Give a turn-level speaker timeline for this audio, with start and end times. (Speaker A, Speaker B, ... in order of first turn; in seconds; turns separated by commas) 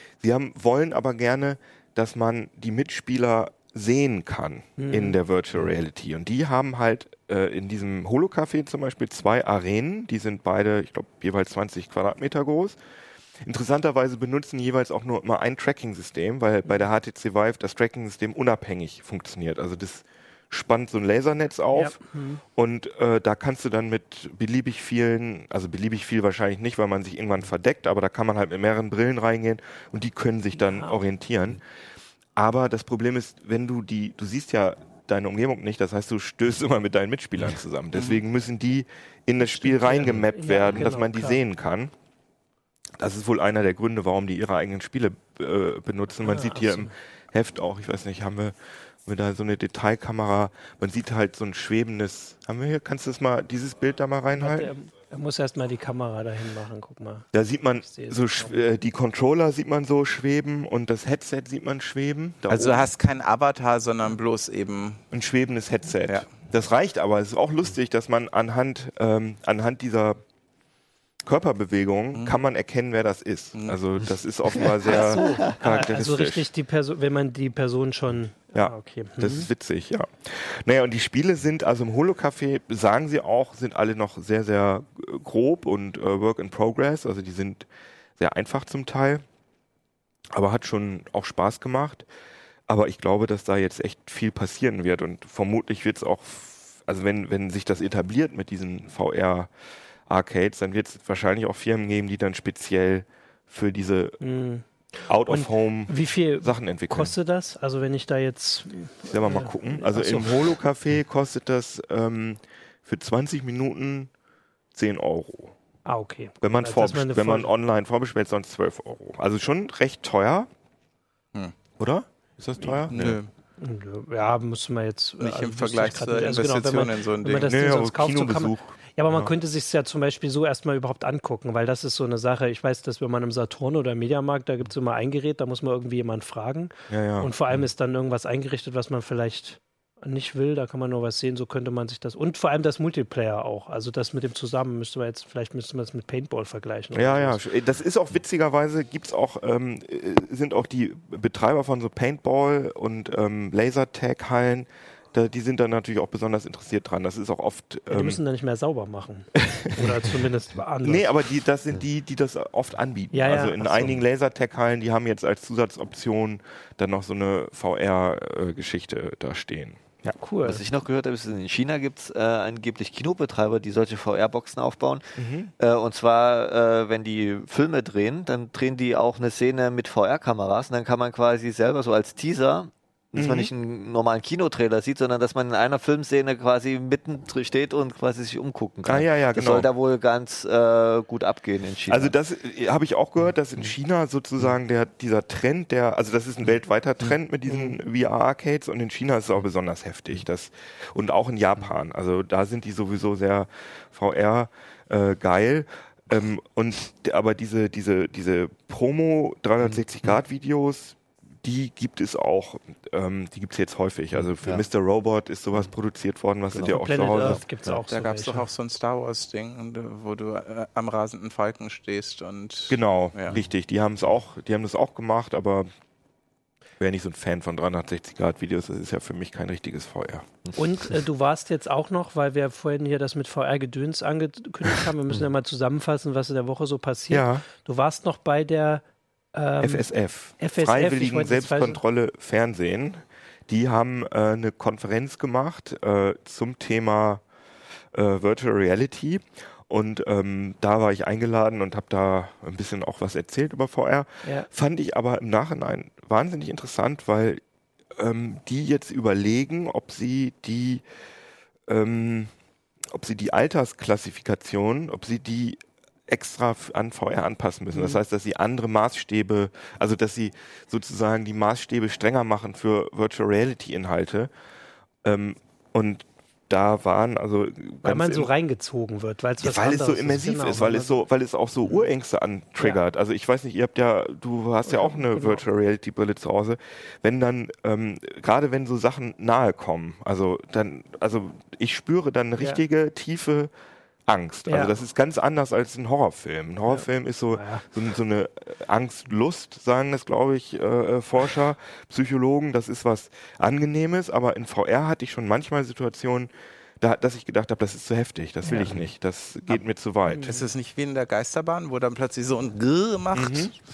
Speaker A: 0.2-12.8, Speaker B: 4.8-5.2, Speaker A: 13.4-22.0, Speaker B: 21.7-22.4, Speaker A: 22.5-31.6, Speaker A: 32.4-41.9, Speaker C: 37.9-38.2, Speaker B: 39.4-41.4, Speaker A: 43.0-48.5, Speaker B: 46.2-46.9, Speaker A: 49.1-54.7, Speaker B: 54.4-57.2, Speaker A: 57.3-62.9, Speaker B: 57.9-58.6, Speaker C: 62.5-65.0, Speaker A: 65.1-70.2, Speaker A: 71.2-76.5, Speaker C: 72.1-72.4, Speaker C: 73.5-73.8, Speaker D: 74.5-75.5, Speaker B: 74.8-79.5, Speaker A: 78.5-87.7, Speaker A: 88.2-89.2, Speaker A: 90.3-92.1, Speaker A: 92.7-99.5, Speaker A: 100.1-104.2, Speaker B: 104.2-104.7, Speaker A: 105.1-107.1, Speaker B: 105.3-110.5, Speaker A: 109.1-114.1, Speaker A: 114.7-115.5, Speaker B: 115.9-117.5, Speaker A: 116.4-120.5, Speaker A: 121.8-123.2, Speaker C: 122.9-123.3, Speaker B: 123.6-147.4, Speaker C: 125.2-127.5, Speaker A: 127.4-129.3, Speaker A: 136.9-137.3, Speaker A: 146.9-158.2, Speaker B: 157.9-161.1, Speaker A: 159.5-160.1, Speaker A: 160.8-170.1, Speaker B: 163.1-164.0, Speaker B: 170.1-170.7, Speaker D: 170.4-192.1, Speaker A: 175.2-175.5, Speaker A: 183.2-183.5, Speaker A: 188.9-189.7, Speaker A: 191.9-217.4, Speaker D: 209.6-210.2, Speaker D: 214.4-214.7, Speaker D: 216.5-217.8, Speaker B: 216.6-218.5, Speaker C: 217.9-223.4, Speaker A: 222.7-225.7, Speaker A: 226.8-230.3, Speaker B: 230.6-238.8, Speaker A: 237.1-237.4, Speaker B: 239.3-239.9, Speaker A: 239.6-247.2, Speaker B: 240.4-241.8, Speaker A: 247.9-257.4, Speaker A: 257.9-260.8, Speaker A: 261.7-262.3, Speaker A: 262.9-274.3, Speaker B: 267.7-268.0, Speaker A: 275.0-278.3, Speaker B: 277.8-281.0, Speaker A: 279.4-293.5, Speaker B: 284.6-285.4, Speaker A: 294.1-310.4, Speaker B: 294.5-294.7, Speaker B: 297.3-297.6, Speaker B: 308.4-308.7, Speaker D: 308.5-308.8, Speaker B: 310.1-310.5, Speaker C: 310.2-313.6, Speaker A: 313.1-313.5